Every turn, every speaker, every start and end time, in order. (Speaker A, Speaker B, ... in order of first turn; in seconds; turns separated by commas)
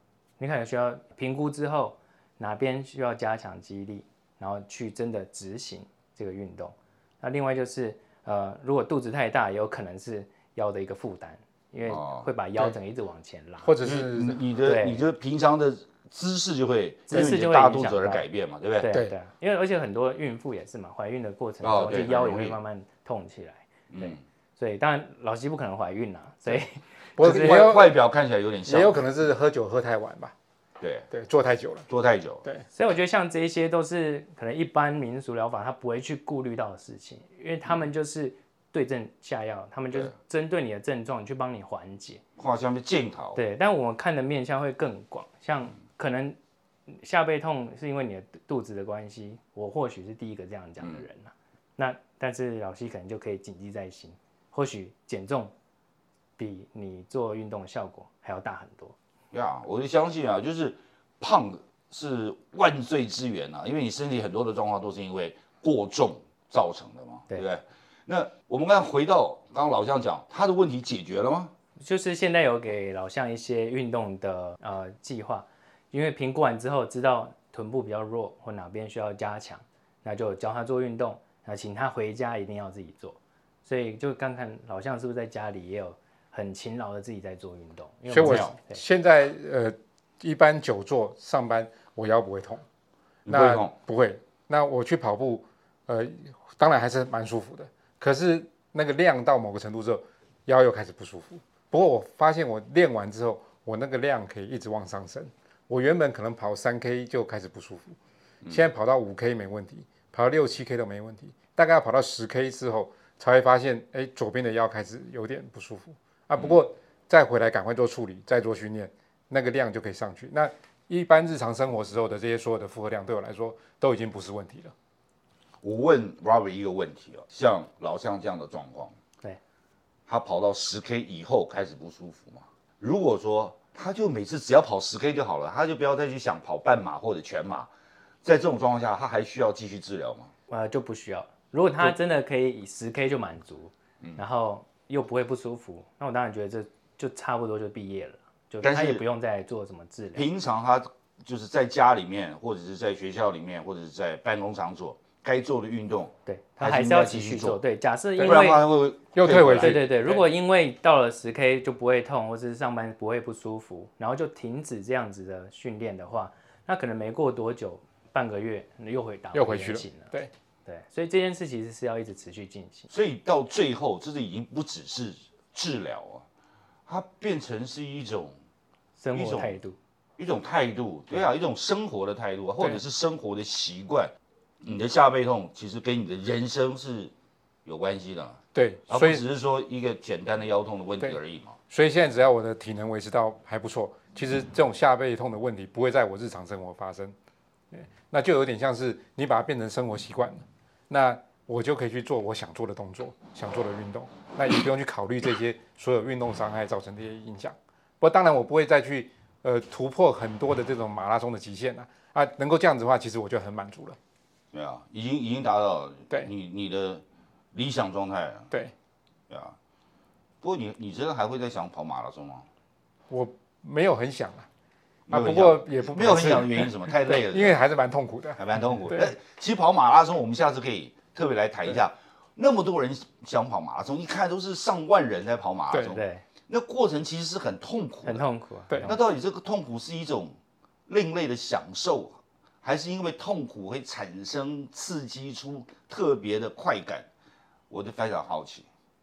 Speaker A: 0.4-13.8, Speaker B: 11.9-12.3, Speaker C: 13.6-14.4, Speaker B: 13.8-18.9, Speaker A: 14.6-15.0, Speaker A: 17.1-18.3, Speaker A: 18.8-27.8, Speaker C: 18.9-19.1, Speaker B: 21.6-22.6, Speaker B: 23.9-24.2, Speaker C: 27.2-28.0, Speaker B: 27.2-29.0, Speaker C: 28.7-30.3, Speaker B: 30.8-31.1, Speaker C: 31.1-31.9, Speaker B: 31.9-32.5, Speaker A: 32.7-42.2, Speaker B: 42.4-43.4, Speaker A: 43.4-46.4, Speaker A: 46.9-55.5, Speaker A: 56.4-59.0, Speaker B: 59.3-71.5, Speaker A: 71.8-88.8, Speaker B: 88.1-88.6, Speaker C: 88.1-92.6, Speaker B: 93.2-93.7, Speaker C: 93.3-124.7, Speaker B: 125.6-128.9, Speaker B: 130.1-137.7, Speaker B: 138.2-140.3, Speaker A: 140.5-150.3, Speaker B: 148.6-149.0, Speaker B: 150.2-157.6, Speaker A: 156.3-158.6, Speaker C: 158.2-158.5, Speaker B: 158.2-159.9, Speaker C: 159.1-160.2, Speaker A: 159.5-170.1, Speaker C: 169.3-170.3, Speaker A: 170.7-172.9, Speaker B: 172.9-176.2, Speaker B: 176.9-178.3, Speaker A: 179.0-179.8, Speaker B: 179.1-179.6, Speaker B: 180.2-187.1, Speaker B: 187.7-191.6, Speaker C: 188.5-189.2, Speaker C: 191.7-197.1, Speaker C: 197.7-214.0, Speaker B: 214.5-217.0, Speaker B: 217.5-218.5, Speaker B: 219.3-219.6, Speaker B: 220.4-222.5, Speaker C: 223.1-224.5, Speaker B: 225.1-227.6, Speaker C: 225.1-229.1, Speaker B: 228.4-238.2, Speaker A: 235.8-236.2, Speaker A: 238.1-239.0, Speaker C: 238.7-238.9, Speaker B: 238.8-240.3, Speaker B: 240.9-247.1, Speaker B: 247.7-248.7